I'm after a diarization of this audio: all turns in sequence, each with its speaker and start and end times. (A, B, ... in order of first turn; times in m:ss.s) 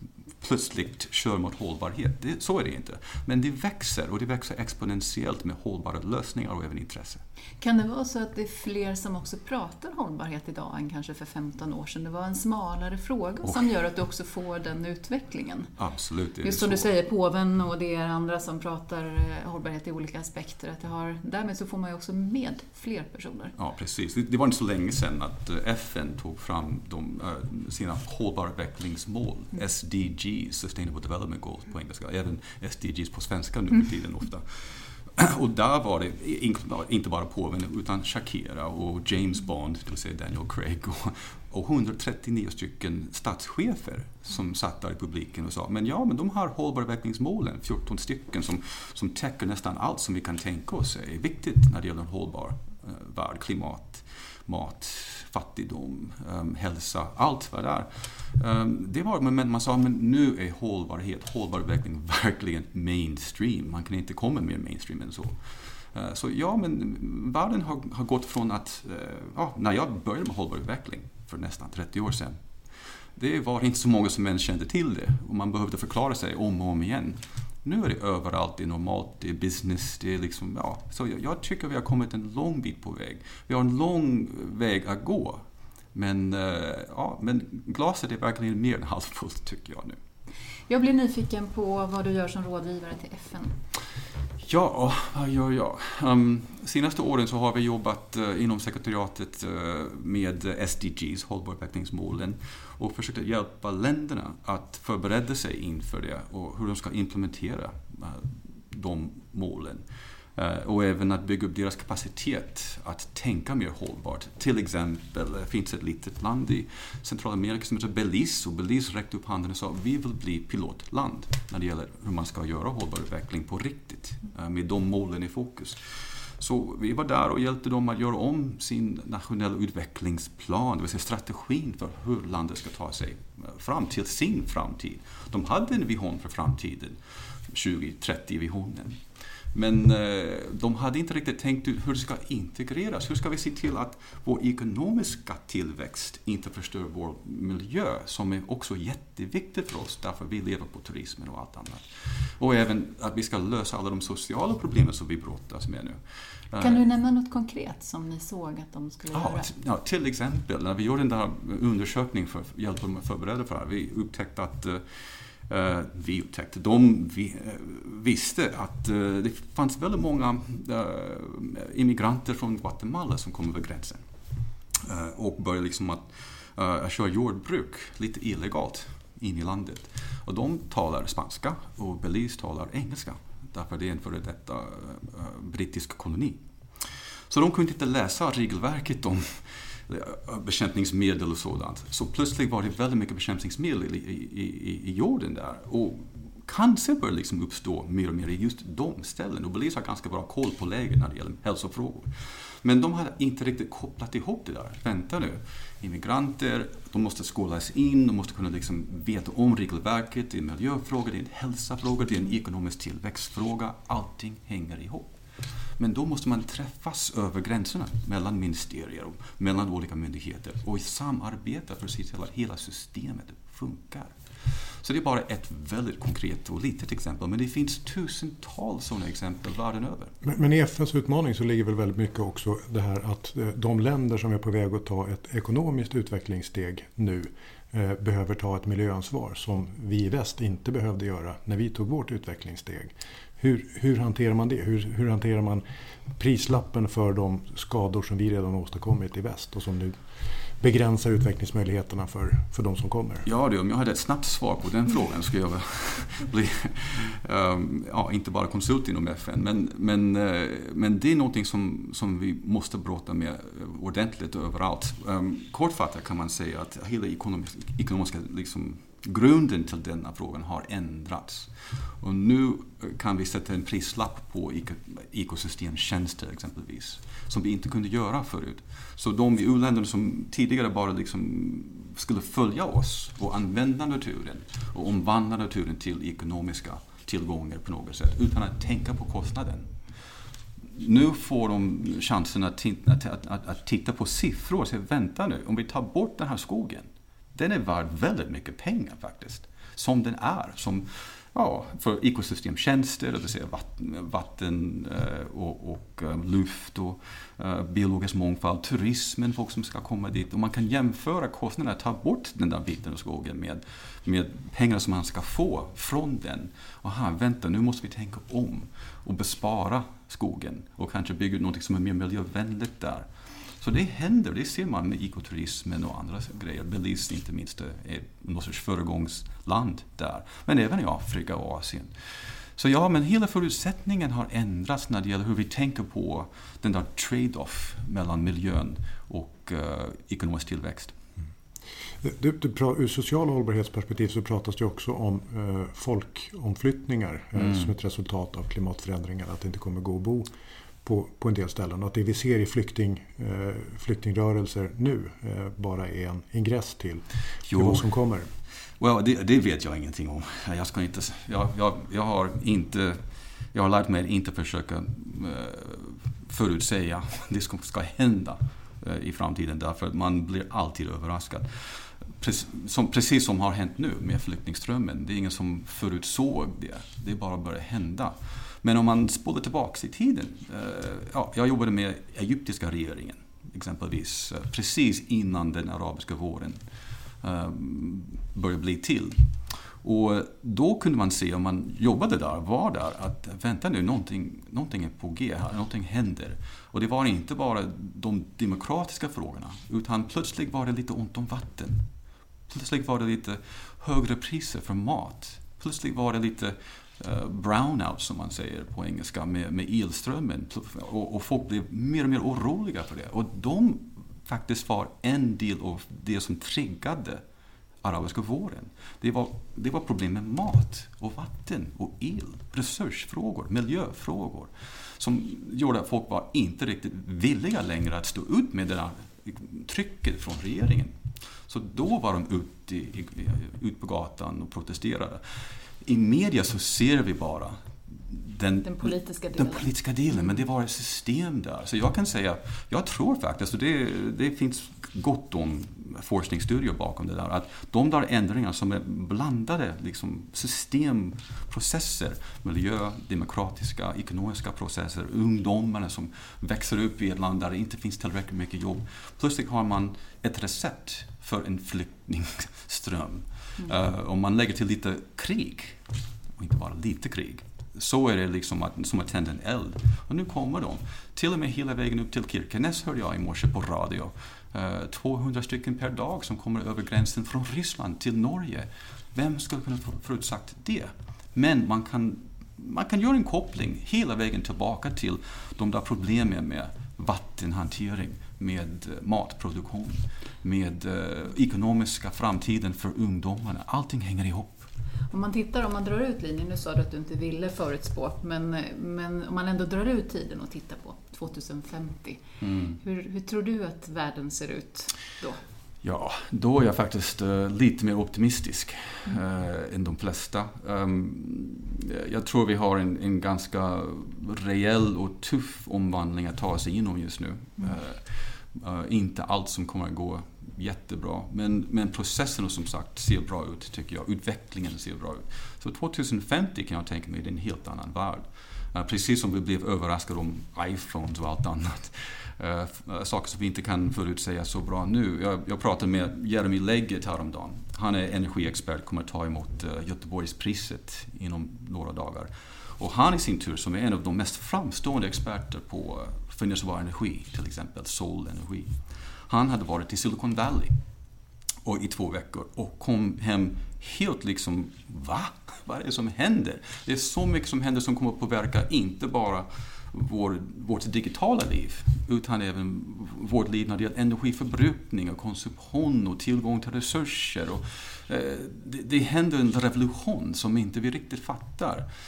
0:00.4-0:07.2 A
0:07.6-0:15.7 B
0:15.8-0:16.9 A
0:16.4-0:23.5 B
0:23.6-1:12.4 A
1:13.2-1:25.4 A
1:25.9-1:30.0 A
1:30.7-1:33.6 B
1:34.4-1:49.8 A
1:50.4-2:36.0 A
2:36.5-2:36.8 A
2:36.6-2:39.5 B
2:39.1-2:44.8 A
2:45.5-2:54.0 A
2:54.8-3:22.1 A
3:22.6-3:35.1 A
3:35.8-3:50.1 A
3:50.2-4:10.0 C
4:10.6-4:13.2 C
4:13.2-4:49.7 A
4:50.7-5:23.1 A
5:23.6-5:31.9 A
5:32.6-5:40.9 A
5:42.0-5:50.3 C
5:47.4-5:47.6 A
5:50.8-5:58.3 C
5:57.5-5:57.8 A
5:58.8-6:03.0 A
6:03.5-6:26.6 A
6:27.2-6:29.2 A
6:29.8-6:41.8 A
6:42.5-6:57.2 A
6:57.8-7:10.9 A
7:11.5-7:15.2 A
7:15.8-7:45.8 A
7:18.6-7:19.7 B
7:46.4-8:14.7 A
8:15.1-8:22.2 B
8:22.4-8:22.8 A
8:22.8-8:25.4 B
8:25.8-9:08.7 A
9:09.3-9:10.8 A
9:11.6-9:31.9 A